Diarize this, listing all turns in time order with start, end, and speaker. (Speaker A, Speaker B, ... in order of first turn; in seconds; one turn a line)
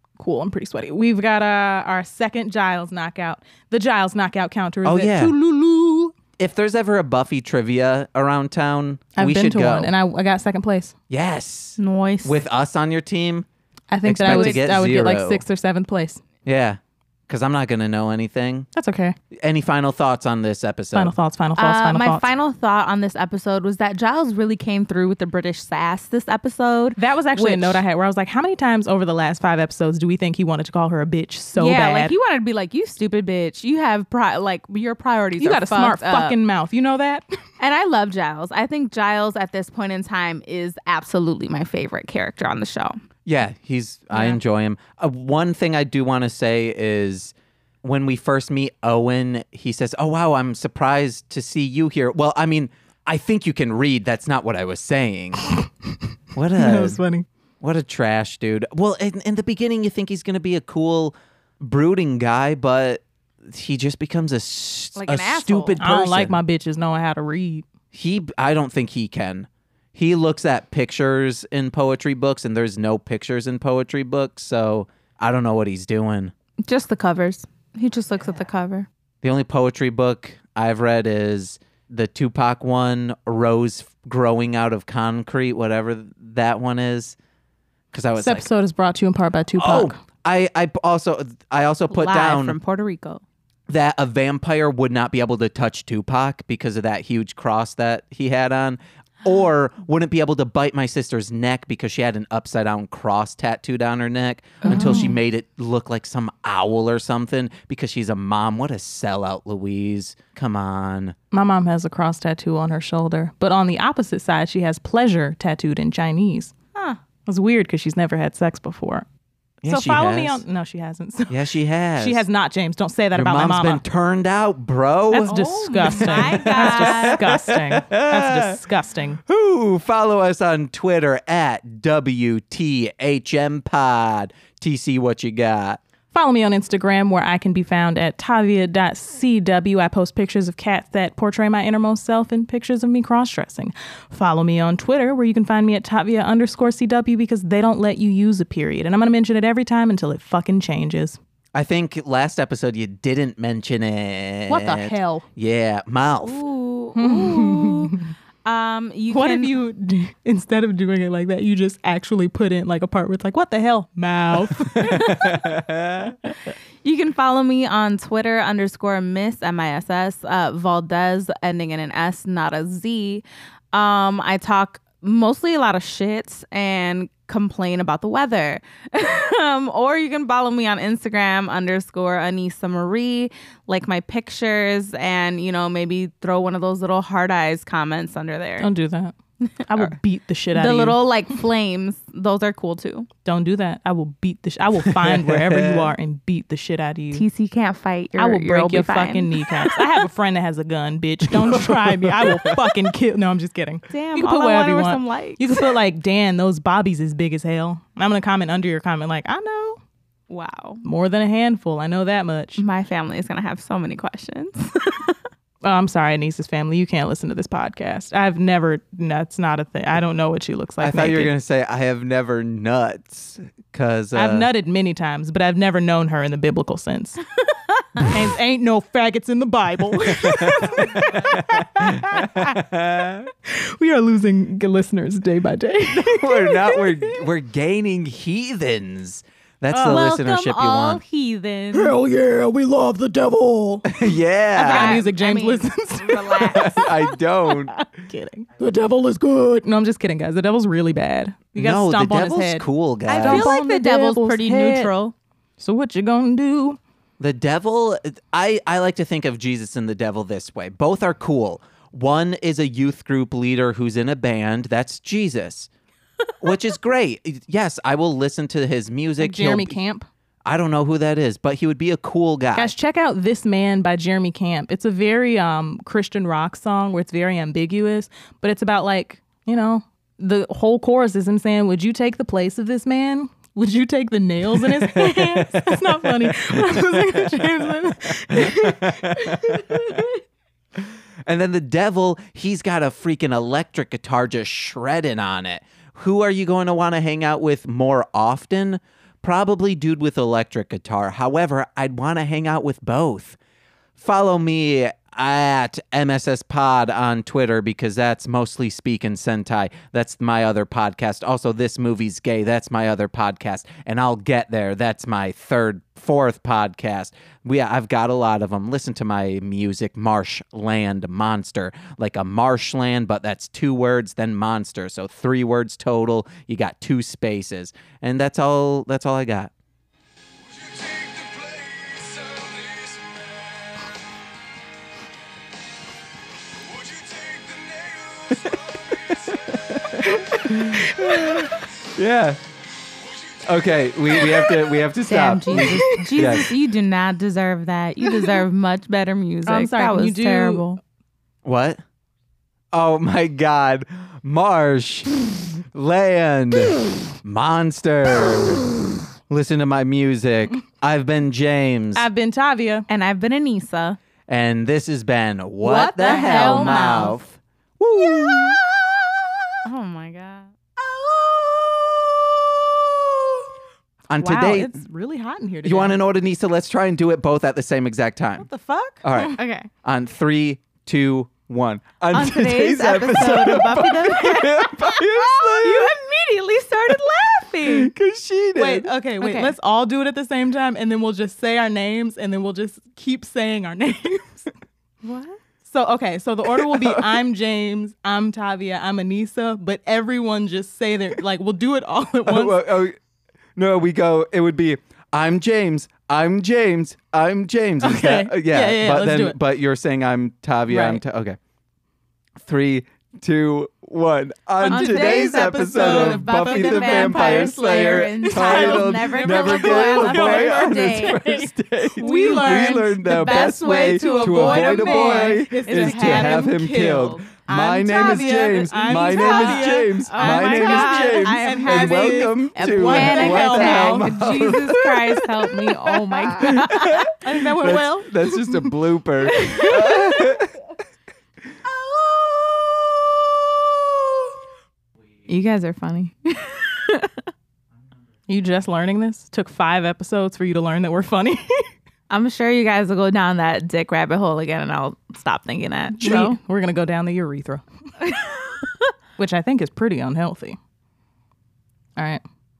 Speaker A: 0.2-6.1
Speaker B: 4.8-5.3
Speaker B: 6.4-9.9
Speaker A: 9.2-10.9
Speaker B: 11.1-13.5
Speaker C: 11.8-12.4
Speaker A: 13.9-16.2
Speaker B: 14.0-15.4
Speaker C: 14.3-14.6
Speaker B: 16.4-18.7
Speaker A: 18.7-19.1
Speaker B: 19.3-21.1
Speaker A: 20.9-22.3
Speaker C: 21.6-27.8
Speaker A: 27.0-32.1
Speaker C: 31.6-36.4
Speaker A: 35.4-37.2
Speaker C: 37.6-43.0
Speaker B: 43.2-55.5
Speaker C: 44.1-44.4
Speaker B: 56.3-57.0
Speaker A: 56.5-57.2
Speaker B: 57.6-66.4
Speaker C: 65.0-65.8
Speaker A: 65.8-67.6
Speaker B: 67.9-76.3
Speaker C: 76.7-78.9
Speaker B: 79.2-87.2
Speaker B: 87.9-88.5
Speaker A: 88.2-90.0
Speaker B: 89.6-92.6
Speaker C: 91.9-93.2
Speaker B: 93.7-111.2
Speaker A: 104.6-105.2
Speaker A: 111.3-116.5
Speaker C: 116.7-117.0
Speaker A: 117.2-119.0
Speaker B: 119.6-120.4
Speaker A: 119.7-121.4
Speaker B: 121.3-122.2
Speaker A: 122.0-123.8
Speaker B: 123.1-128.6
Speaker A: 125.1-129.2
Speaker C: 125.2-127.2
Speaker B: 129.2-135.8
Speaker A: 136.1-151.2
Speaker B: 151.5-156.4
Speaker A: 154.5-155.2
Speaker C: 156.2-159.5
Speaker A: 156.9-158.1
Speaker A: 159.1-165.2
Speaker B: 164.5-166.1
Speaker C: 164.8-165.5
Speaker C: 166.8-188.7
Speaker A: 188.6-189.1
Speaker A: 189.7-191.0
Speaker C: 190.5-193.1
Speaker A: 193.2-197.2
Speaker B: 194.8-195.9
Speaker C: 197.1-199.8
Speaker A: 198.2-209.8
Speaker B: 201.4-202.7
Speaker C: 203.9-205.7
Speaker C: 210.3-210.8
Speaker A: 210.8-212.6
Speaker C: 212.6-215.1
Speaker A: 215.6-221.3
Speaker B: 220.8-224.5
Speaker A: 224.1-227.2
Speaker A: 228.0-232.6
Speaker B: 230.2-233.3
Speaker A: 233.4-237.2
Speaker B: 235.9-241.0
Speaker A: 239.7-240.1
Speaker C: 239.8-241.9
Speaker A: 241.7-254.9
Speaker B: 243.8-245.0
Speaker C: 244.6-246.9
Speaker B: 246.4-247.8
Speaker B: 251.6-253.5
Speaker C: 253.1-255.1
Speaker A: 255.6-256.8
Speaker B: 257.2-265.7
Speaker B: 266.4-269.8
Speaker A: 269.2-270.1
Speaker B: 270.4-272.7
Speaker A: 272.5-290.2
Speaker B: 284.8-286.6
Speaker B: 288.3-289.8
Speaker B: 290.8-303.4
Speaker B: 303.9-329.5
Speaker B: 330.6-333.1
Speaker B: 336.8-342.4
Speaker A: 340.5-341.5
Speaker B: 343.1-346.5
Speaker A: 344.2-344.6
Speaker C: 345.0-350.6
Speaker A: 345.5-346.5
Speaker A: 349.4-350.8
Speaker B: 351.4-351.8
Speaker B: 352.7-362.1
Speaker A: 361.9-362.9
Speaker C: 362.9-364.0
Speaker B: 364.3-368.6
Speaker A: 365.6-367.2
Speaker C: 365.6-367.2
Speaker C: 369.6-370.5
Speaker B: 374.1-374.8
Speaker A: 374.1-376.0
Speaker B: 375.6-378.5
Speaker A: 378.4-379.5
Speaker B: 379.0-385.9
Speaker C: 379.2-379.6
Speaker C: 382.1-387.9
Speaker B: 387.6-388.9
Speaker A: 388.6-394.5
Speaker C: 389.2-389.5
Speaker C: 395.0-395.3
Speaker A: 395.6-402.7
Speaker B: 396.5-397.1
Speaker B: 402.2-403.0
Speaker B: 403.6-411.4
Speaker A: 407.8-409.4
Speaker A: 410.7-411.0
Speaker B: 412.4-434.9
Speaker A: 414.6-440.4
Speaker C: 414.6-421.4
Speaker C: 422.0-437.1
Speaker B: 436.3-440.6
Speaker C: 445.3-447.1
Speaker A: 448.3-451.7
Speaker C: 452.1-456.4
Speaker A: 456.0-457.6
Speaker A: 459.2-460.6
Speaker A: 462.0-462.2